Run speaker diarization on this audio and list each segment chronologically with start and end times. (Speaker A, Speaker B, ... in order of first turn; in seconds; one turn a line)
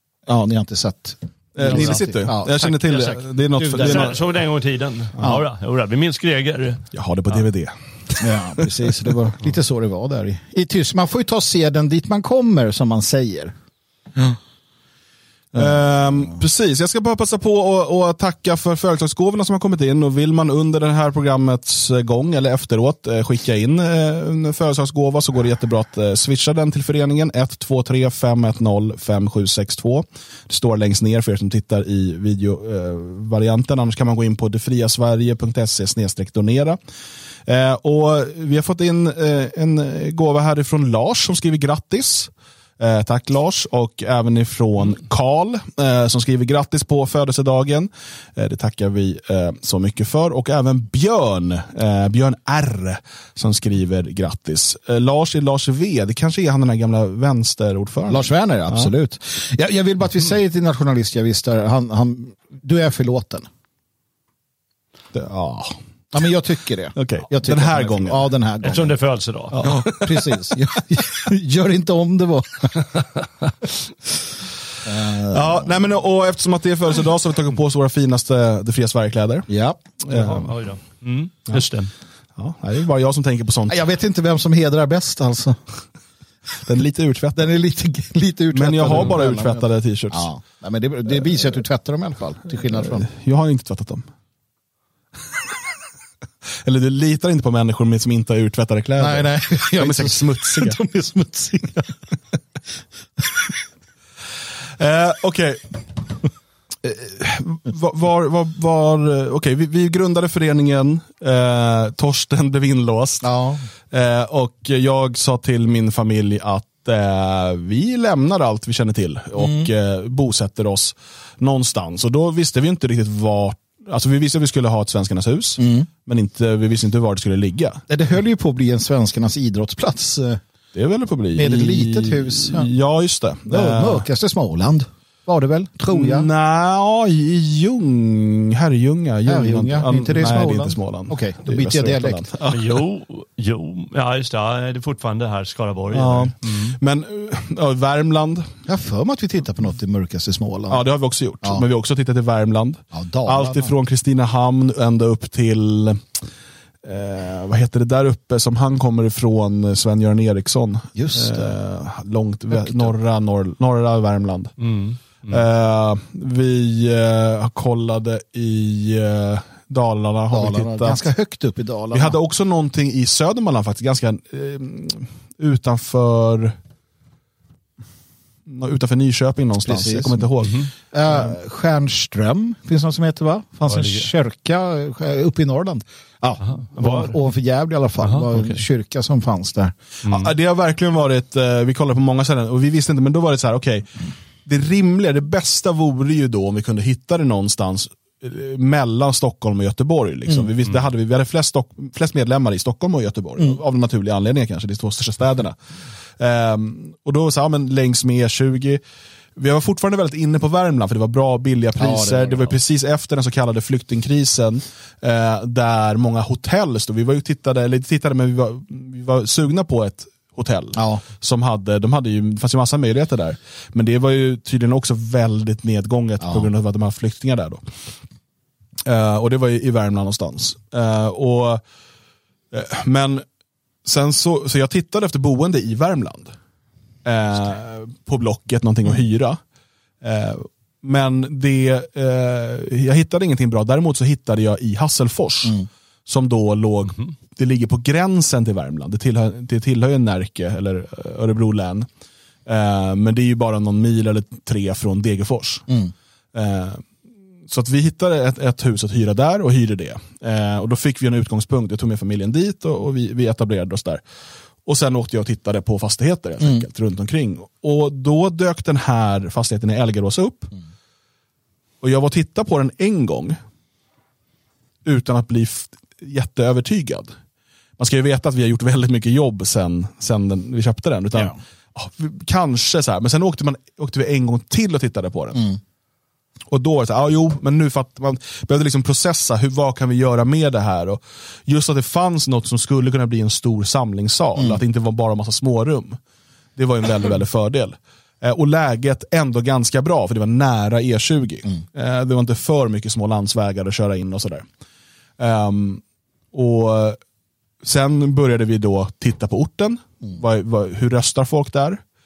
Speaker A: 0.3-4.2
Speaker B: 1.6-4.2
Speaker C: 1.7-2.0
Speaker C: 3.8-7.4
Speaker B: 6.9-7.8
Speaker A: 8.2-13.5
Speaker B: 8.3-8.7
Speaker B: 15.5-36.8
Speaker A: 15.6-16.3
Speaker B: 37.5-58.9
Speaker A: 58.1-63.5
Speaker B: 65.1-65.8
Speaker A: 66.1-69.0
Speaker B: 67.0-68.2
Speaker C: 68.6-69.6
Speaker B: 69.5-70.1
Speaker A: 69.6-72.8
Speaker A: 74.8-75.7
Speaker B: 75.3-79.5
Speaker A: 79.5-79.8
Speaker B: 80.0-80.5
Speaker C: 80.1-81.9
Speaker B: 82.4-83.8
Speaker A: 83.7-85.6
Speaker B: 86.6-87.5
Speaker A: 87.4-93.1
Speaker B: 88.5-90.3
Speaker B: 92.8-94.1
Speaker B: 96.6-100.8
Speaker A: 99.0-101.9
Speaker B: 104.8-105.8
Speaker B: 106.8-113.3
Speaker A: 113.2-113.7
Speaker B: 113.9-127.8
Speaker A: 119.4-119.7
Speaker A: 125.6-125.9
Speaker A: 127.9-130.4
Speaker B: 130.7-134.1
Speaker A: 131.3-132.7
Speaker A: 133.5-136.3
Speaker B: 135.9-142.8
Speaker A: 139.3-142.3
Speaker C: 142.5-146.8
Speaker B: 145.9-148.5
Speaker A: 148.7-150.8
Speaker B: 150.7-156.1
Speaker A: 152.9-153.7
Speaker B: 156.8-164.5
Speaker A: 160.9-161.6
Speaker A: 162.5-162.9
Speaker C: 164.6-165.4
Speaker B: 165.3-171.0
Speaker A: 170.3-172.2
Speaker B: 171.9-176.6
Speaker B: 178.5-180.6
Speaker A: 179.6-180.3
Speaker A: 180.9-189.7
Speaker C: 183.7-184.1
Speaker C: 188.0-188.6
Speaker C: 190.1-190.3
Speaker B: 190.1-193.9
Speaker B: 194.5-205.6
Speaker B: 206.2-208.8
Speaker B: 209.4-227.6
Speaker A: 211.8-212.6
Speaker A: 220.8-221.0
Speaker A: 226.2-226.5
Speaker B: 228.9-231.6
Speaker B: 232.5-233.2
Speaker B: 233.8-236.3
Speaker B: 237.1-239.4
Speaker B: 240.0-245.6
Speaker B: 246.1-251.9
Speaker B: 252.5-255.7
Speaker B: 256.3-256.9
Speaker B: 257.5-264.0
Speaker B: 264.6-270.5
Speaker B: 271.8-273.4
Speaker B: 274.9-277.1
Speaker B: 277.8-285.4
Speaker A: 285.3-285.6
Speaker B: 286.5-296.0
Speaker A: 294.4-294.6
Speaker B: 296.6-304.4
Speaker B: 305.2-305.8
Speaker B: 306.3-307.0
Speaker B: 307.6-311.8